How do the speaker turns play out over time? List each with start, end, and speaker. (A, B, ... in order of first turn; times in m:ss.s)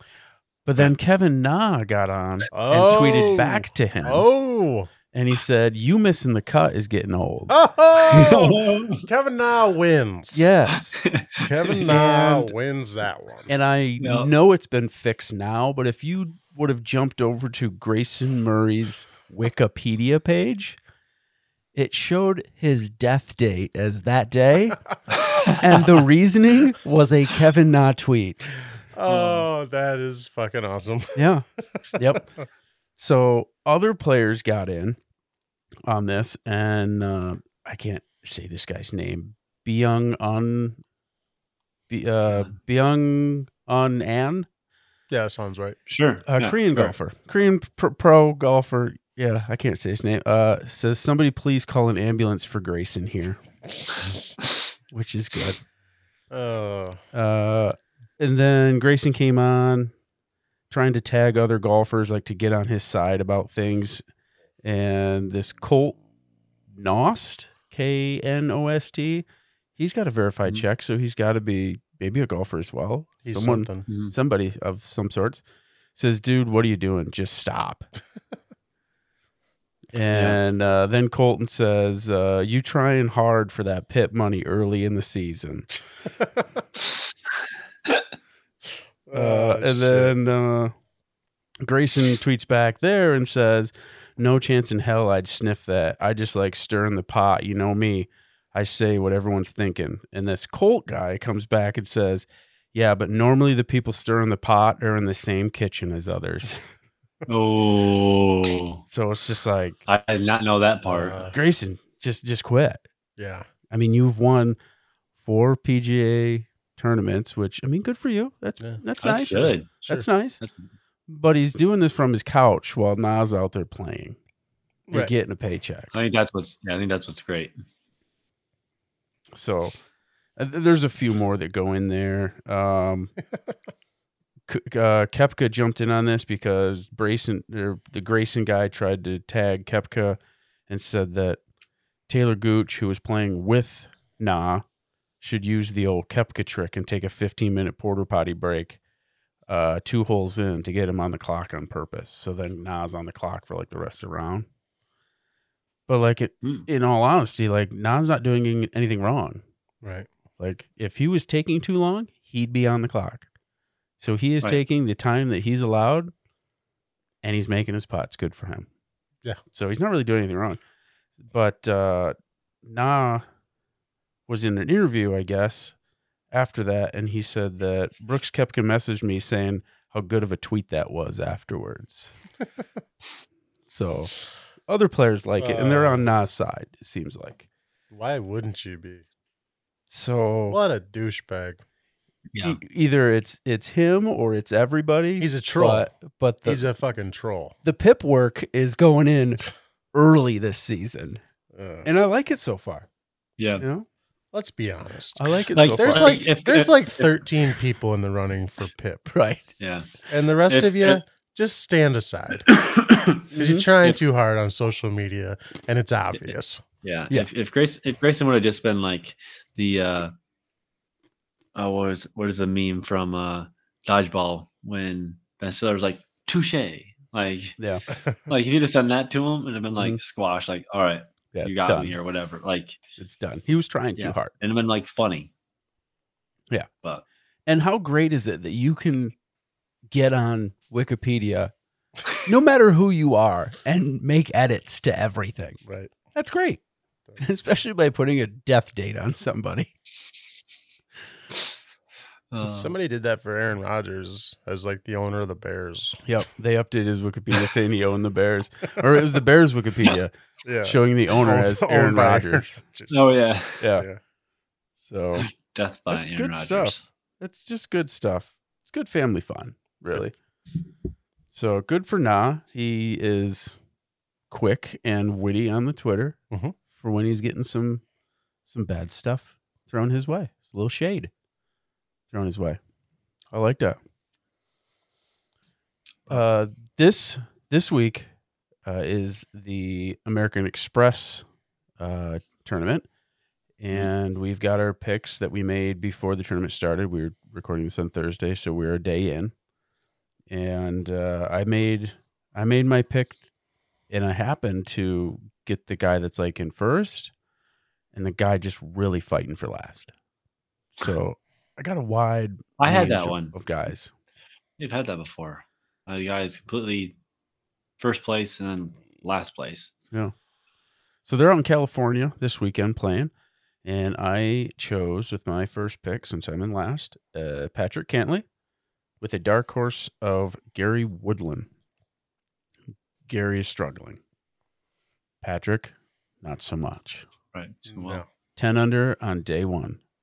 0:00.7-0:04.2 A
0:02.5-0:04.9 B
0:05.1-0:07.6 A
0:07.5-0:10.5 B
0:08.1-0:09.0 C
0:10.3-0:11.0 A
0:11.0-0:11.8 C
0:11.4-0:13.5 B
0:11.9-0:12.5 A
0:13.5-0:20.8 A
0:14.0-0:14.3 C
0:21.7-0:24.9 A
0:25.4-0:28.6 A
0:28.9-0:31.2 B
0:29.1-0:29.4 C
0:31.2-0:32.3 A
0:33.0-0:35.0 A
0:35.9-0:40.8 A
0:41.9-0:44.5 A
0:45.1-0:45.8 B
0:45.9-0:46.9 C
0:46.3-0:53.4 A
0:54.9-0:55.6 A
0:56.3-0:57.0 B
0:57.1-0:59.9 A
1:00.7-1:04.0 A
1:04.6-1:06.0 A
1:06.7-1:09.2 A
1:09.8-1:15.4 A
1:13.2-1:13.9 B
1:13.9-1:14.1 C
1:16.0-1:17.9 A
1:19.9-1:25.7 A
1:20.1-1:20.4 C
1:29.1-1:30.1 B
1:29.1-1:30.7 A
1:31.6-1:46.6 A
1:47.3-1:48.8 C
1:48.9-1:49.8 A
1:49.9-1:51.2 C
1:50.9-1:51.3 B
1:51.3-1:52.8 A
1:53.2-1:53.5 B
1:53.7-1:54.6 A
1:55.2-2:00.4 A
1:58.6-2:00.0 B
1:59.0-1:59.7 C
2:00.4-2:00.7 C
2:01.1-2:04.2 A
2:04.9-2:06.0 A
2:05.9-2:07.5 C
2:09.3-2:09.8 A
2:10.4-2:13.1 A
2:14.5-2:21.4 A
2:22.1-2:24.6 A
2:25.2-2:28.8 A
2:29.5-2:34.5 A
2:35.9-2:39.4 A
2:39.8-2:40.1 B
2:40.4-2:43.3 A
2:44.0-2:46.1 A
2:47.2-2:48.7 A
2:49.5-2:50.6 A
2:51.3-2:53.2 A
2:54.3-2:55.7 A
2:56.3-3:02.1 A
3:03.6-3:04.1 A
3:04.7-3:07.4 A
3:05.4-3:06.1 B
3:07.9-3:09.0 B
3:09.9-3:10.6 A
3:10.5-3:11.6 B
3:12.3-3:12.6 C
3:12.4-3:16.6 A
3:15.2-3:15.9 B
3:16.4-3:17.6 B
3:17.6-3:21.2 A
3:21.5-3:21.9 B
3:21.8-3:22.9 A
3:23.4-3:23.6 C
3:23.6-3:23.9 A
3:24.3-3:29.1 B
3:25.2-3:26.1 A
3:25.6-3:27.2 C
3:29.1-3:29.5 A
3:29.6-3:29.9 C
3:30.1-3:32.5 B
3:30.5-3:31.0 C
3:32.5-3:33.2 C
3:33.3-3:36.6 B
3:33.3-3:33.7 A
3:36.1-3:40.1 C
3:41.6-3:47.6 C
3:47.6-3:47.8 A
3:48.3-3:52.8 C
3:51.3-3:52.0 A
3:53.0-3:54.3 A
3:54.0-3:55.3 C
3:57.5-3:59.1 A
3:59.9-4:01.5 A
4:02.1-4:05.6 A
4:05.6-4:05.9 B
4:06.1-4:06.6 A
4:07.2-4:09.7 A
4:12.3-4:12.7 C
4:12.4-4:16.0 B
4:16.0-4:22.6 A
4:20.4-4:23.0 B
4:22.9-4:23.7 C
4:23.6-4:23.9 A
4:24.8-4:25.3 A
4:25.2-4:26.8 C
4:25.9-4:30.1 A
4:31.3-4:33.6 A
4:34.3-4:36.2 A
4:36.7-4:37.8 A
4:38.5-4:41.1 A
4:42.1-4:42.6 A
4:43.3-4:43.8 A
4:46.1-4:48.1 A
4:48.7-4:51.3 A
4:51.8-4:52.9 A
4:53.6-4:59.3 A
5:00.3-5:03.3 A
5:03.9-5:07.1 A
5:07.9-5:09.9 A
5:10.7-5:13.9 A
5:12.6-5:13.3 C
5:14.6-5:17.0 C
5:17.8-5:19.7 C
5:21.0-5:23.1 A
5:23.6-5:28.3 A
5:29.0-5:31.5 A
5:33.1-5:34.0 A
5:35.2-5:37.1 A
5:37.3-5:38.0 C
5:37.7-5:38.0 B
5:38.4-5:39.8 A